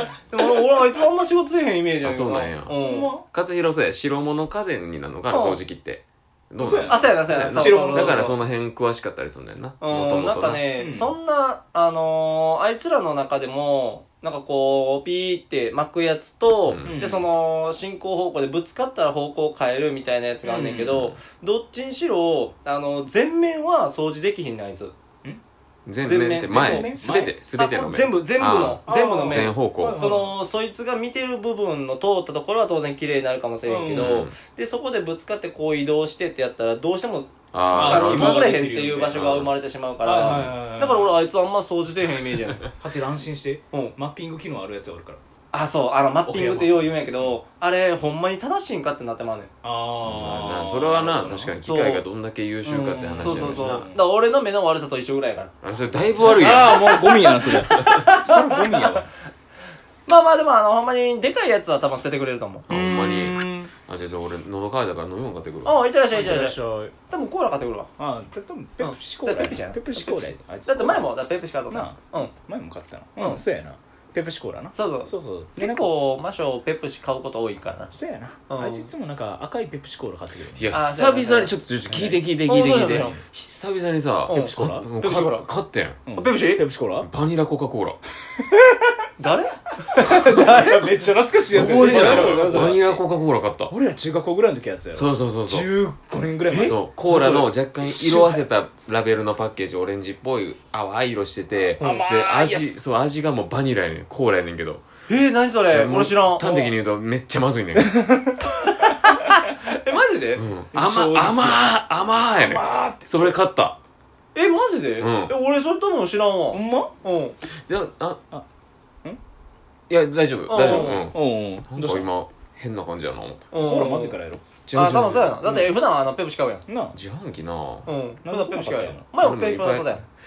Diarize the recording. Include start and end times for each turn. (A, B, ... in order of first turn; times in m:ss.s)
0:00.3-0:03.1 A
0:02.0-0:10.6 B
0:02.8-0:03.3 C
0:05.3-0:05.6 A
0:06.6-0:08.3 C
0:06.9-0:08.3 A
0:09.8-0:24.9 A
0:10.8-0:11.1 C
0:16.7-0:16.9 B
0:16.8-0:17.3 C
0:20.4-0:21.1 C
0:20.9-0:21.2 B
0:25.9-0:30.0 B
0:26.0-0:26.9 A
0:26.4-0:27.4 C
0:27.6-0:42.7 A
0:28.9-0:30.4 C
0:33.7-0:34.3 C
0:34.0-0:34.4 B
0:37.5-0:38.4 B
0:37.7-0:39.4 C
0:39.1-0:39.5 B
0:40.0-0:41.2 C
0:42.8-0:45.2 C
0:45.5-0:49.5 A
0:46.3-0:47.1 C
0:49.6-0:51.6 C
0:50.0-0:53.9 B
0:51.6-0:52.0 A
0:52.6-0:55.5 A
0:53.0-0:54.0 C
0:55.6-0:58.0 B
0:56.2-0:59.1 C
0:56.6-0:57.1 A
0:57.7-0:58.9 A
1:00.1-1:02.7 A
1:02.7-1:05.7 B
1:02.7-1:03.7 C
1:05.6-1:06.6 A
1:06.1-1:06.9 C
1:07.1-1:07.9 A
1:08.0-1:15.9 C
1:08.8-1:12.3 A
1:14.8-1:17.9 A
1:17.9-1:20.8 C
1:18.5-1:18.9 A
1:20.6-1:26.0 B
1:20.7-1:23.2 A
1:21.9-1:22.2 C
1:24.3-1:24.9 C
1:24.3-1:25.5 A
1:26.1-1:27.1 C
1:26.2-1:26.6 A
1:27.0-1:28.0 B
1:29.2-1:30.9 A
1:30.0-1:32.8 C
1:31.5-1:32.9 A
1:31.5-1:33.7 B
1:33.7-1:38.4 C
1:34.9-1:35.7 B
1:36.5-1:36.8 A
1:36.6-1:44.8 B
1:41.8-1:42.8 C
1:41.8-1:42.1 A
1:45.1-1:46.4 A
1:45.7-1:48.0 B
1:46.4-1:46.7 C
1:47.8-1:49.0 C
1:49.8-1:50.4 A
1:50.4-1:53.8 B
1:50.7-1:51.7 C
1:52.4-1:53.4 C
1:54.4-1:57.4 A
1:55.0-1:55.4 B
1:56.5-1:56.9 C
1:57.5-1:58.2 B
1:59.9-2:03.5 B
2:00.5-2:01.1 A
2:00.7-2:02.1 C
2:03.5-2:04.2 A
2:03.6-2:04.4 C
2:04.7-2:05.6 B
2:04.7-2:06.6 A
2:06.7-2:07.0 C
2:06.9-2:07.9 B
2:07.9-2:10.0 A
2:08.2-2:09.0 C
2:09.2-2:10.1 B